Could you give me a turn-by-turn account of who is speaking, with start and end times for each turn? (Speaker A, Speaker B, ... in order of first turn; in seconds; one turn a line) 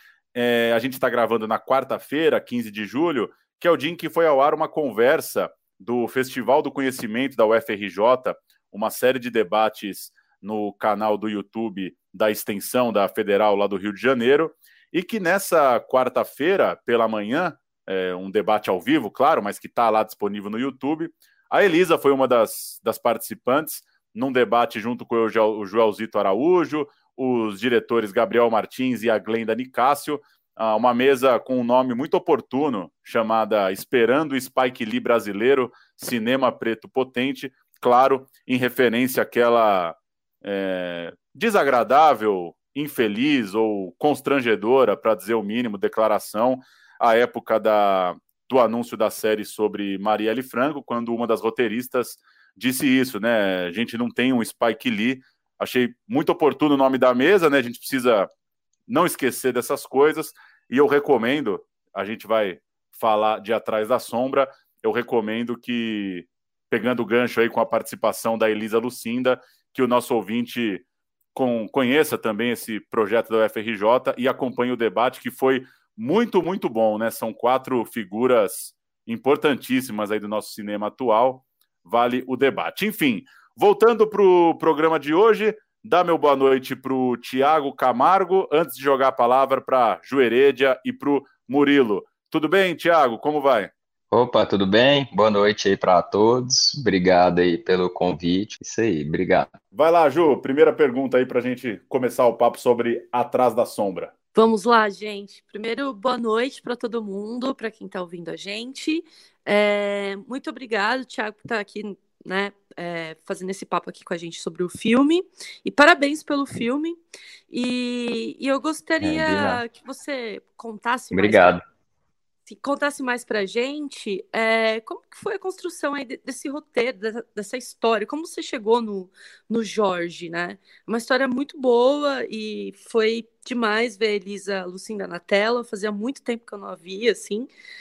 Speaker A: 0.3-58.3
Speaker A: 58.9-93.7
Speaker B: 94.1-99.5
Speaker A: 99.7-104.1
Speaker C: 104.3-117.0
Speaker C: 117.5-121.6
Speaker B: 119.0-119.6
Speaker B: 121.1-121.6
Speaker C: 122.5-137.5